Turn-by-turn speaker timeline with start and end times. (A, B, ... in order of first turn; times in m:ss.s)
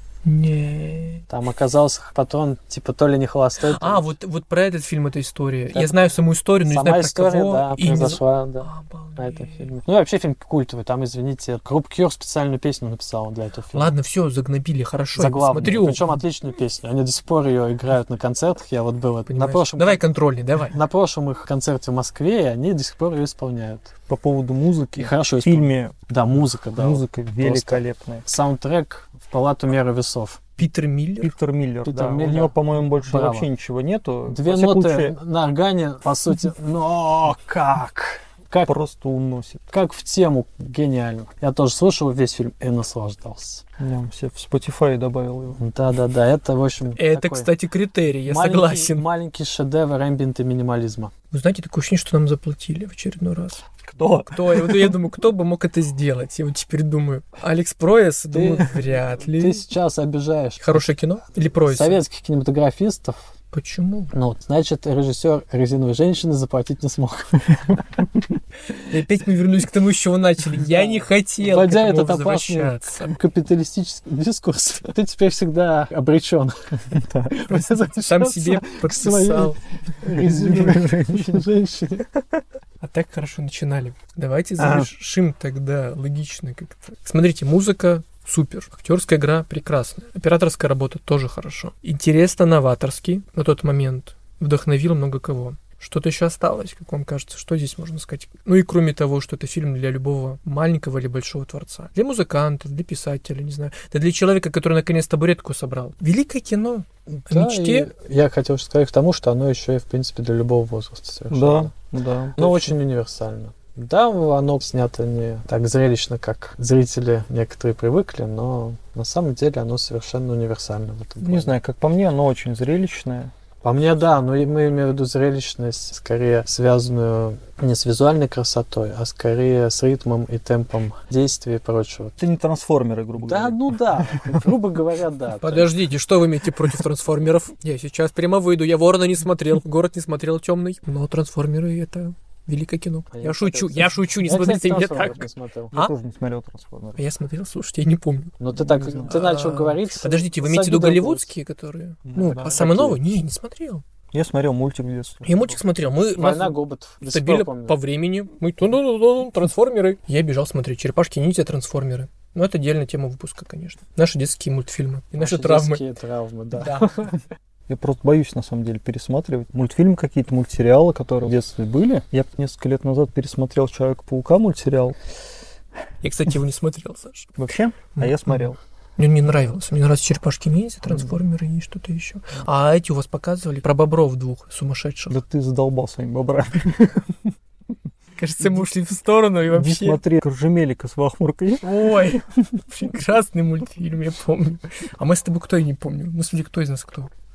0:00.2-0:01.2 A
0:01.3-0:04.1 B
0:03.6-0:09.7 A
0:05.7-0:13.9 B
0:13.7-0:16.2 A
0:15.2-0:20.0 B
0:19.3-0:20.8 A
0:20.7-0:23.9 B
0:24.1-0:26.1 C
0:25.0-0:30.4 B
0:26.7-0:28.2 C
0:30.6-0:31.3 A
0:31.2-0:35.1 C
0:31.8-0:33.5 B
0:34.3-0:38.7 B
0:38.7-0:39.6 C
0:39.7-0:43.6 B
0:43.8-0:45.6 C
0:45.5-0:47.5 B
0:47.0-0:49.0 A
0:48.3-0:51.1 B
0:51.3-0:53.6 A
0:53.9-0:55.0 C
0:54.3-0:59.6 A
0:58.3-1:00.9 B
1:00.6-1:02.0 A
1:01.6-1:03.3 B
1:03.5-1:04.1 A
1:04.1-1:07.8 B
1:08.9-1:13.2 A
1:10.6-1:22.0 B
1:18.0-1:19.6 A
1:20.1-1:21.4 C
1:22.8-1:47.9 A
1:24.6-1:24.9 C
1:47.3-1:51.7 B
1:51.3-1:52.8 C
1:52.4-2:01.6 B
2:01.2-2:03.3 C
2:03.6-2:12.2 B
2:12.2-2:14.4 C
2:13.2-2:15.7 B
2:15.4-2:25.9 A
2:23.1-2:25.7 B
2:25.7-2:27.0 C
2:27.0-2:28.4 A
2:28.4-2:31.3 B
2:28.5-2:29.2 C
2:29.0-2:33.8 A
2:32.1-2:32.7 C
2:32.2-2:33.0 B
2:34.1-2:35.6 C
2:35.2-2:45.8 A
2:36.2-2:37.8 B
2:45.2-2:47.2 B
2:46.6-2:47.1 A
2:47.7-2:55.0 C
2:56.0-2:57.3 A
2:57.4-2:58.6 C
2:58.0-3:05.2 A
3:00.9-3:01.2 C
3:05.1-3:07.3 C
3:08.2-3:10.0 A
3:09.5-3:11.7 C
3:11.6-3:17.1 A